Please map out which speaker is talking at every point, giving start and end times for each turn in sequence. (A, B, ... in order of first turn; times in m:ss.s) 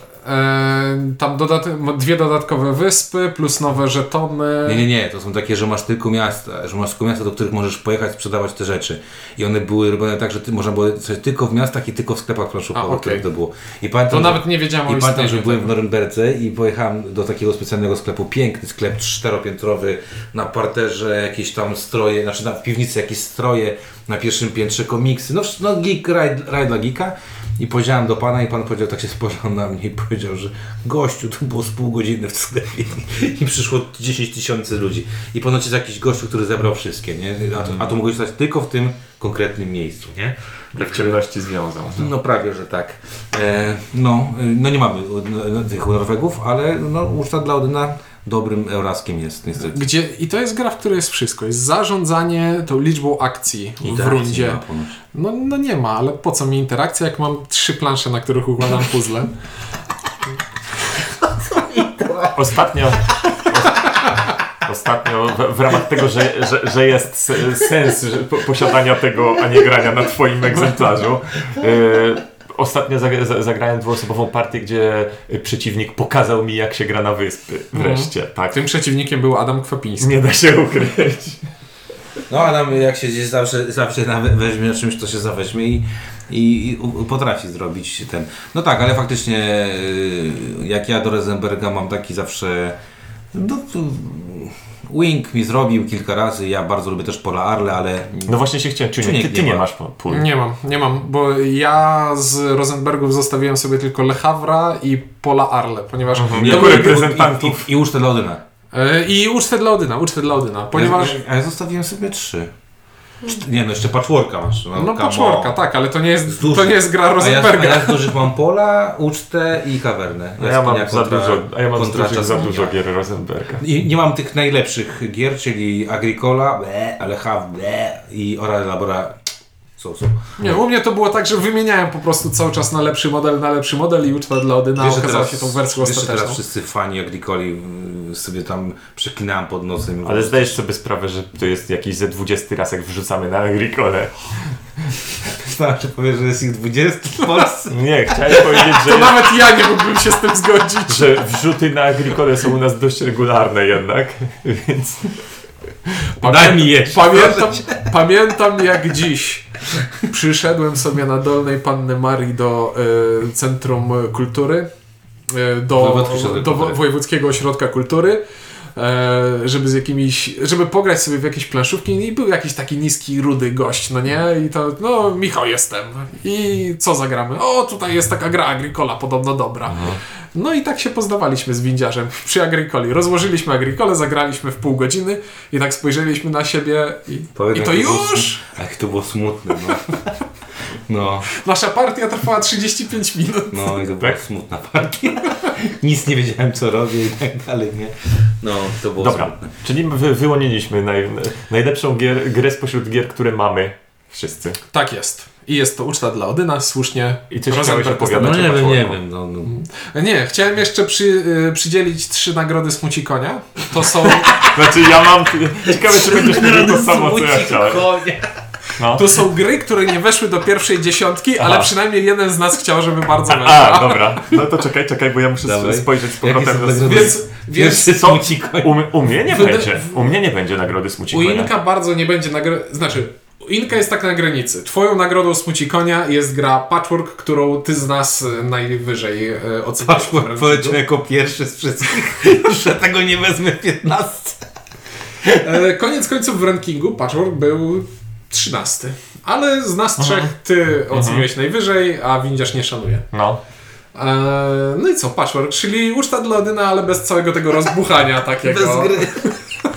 0:00.2-0:04.8 A
0:04.6-0:41.2 B
0:12.7-0:13.2 A
0:14.1-0:15.7 A
0:40.7-0:42.1 C
0:42.0-0:49.9 B
0:49.7-0:54.6 A
0:53.8-0:55.0 B
0:55.1-0:59.3 A
1:01.6-1:02.3 B
1:02.3-1:04.0 C
1:04.6-1:18.6 C
1:17.7-1:20.1 A
1:20.0-1:21.4 C
1:22.3-1:32.8 B
1:33.3-1:38.4 B
1:38.2-1:40.3 C
1:39.0-1:39.6 B
1:40.1-1:47.0 A
1:46.2-1:47.7 C
1:46.4-1:48.4 B
1:48.7-1:51.2 A
1:50.7-1:52.5 B
1:53.2-1:55.6 B
1:54.7-1:58.3 A
1:56.3-2:02.7 B
2:00.4-2:03.6 C
2:03.6-2:09.2 B
2:09.8-2:10.3 B
2:10.4-2:16.4 A
2:14.8-2:20.6 B
2:20.0-2:24.2 C
2:25.3-2:28.4 B
2:27.7-2:29.3 C
2:28.4-2:31.2 A
2:30.9-2:35.2 C
2:36.2-2:37.8 B
2:36.2-2:44.7 A
2:45.3-2:48.2 A
2:45.7-2:46.8 B
2:48.7-3:08.4 A
2:59.7-3:00.0 C
3:07.3-3:10.1 B
3:10.9-3:11.3 B
3:11.3-3:14.1 A
3:13.5-3:19.5 B
3:19.0-3:24.6 C
3:24.7-3:28.4 A
3:27.3-3:29.0 C
3:28.0-3:29.6 B
3:29.5-3:34.4 A
3:34.2-3:34.9 B
3:34.4-3:37.9 C
3:35.6-3:38.4 B
3:38.8-3:39.2 C
3:38.9-3:44.1 A
3:41.4-3:41.7 C
3:43.3-3:47.2 C
3:45.4-3:48.9 B
3:46.8-3:48.1 A
3:47.9-3:51.5 C
3:49.3-3:49.8 A
3:51.1-4:00.8 A
3:59.8-4:04.4 B
4:05.3-4:13.0 A
4:10.0-4:10.3 C
4:10.9-4:11.3 C
4:13.1-4:13.4 C
4:13.9-4:19.3 A
4:18.4-4:19.4 B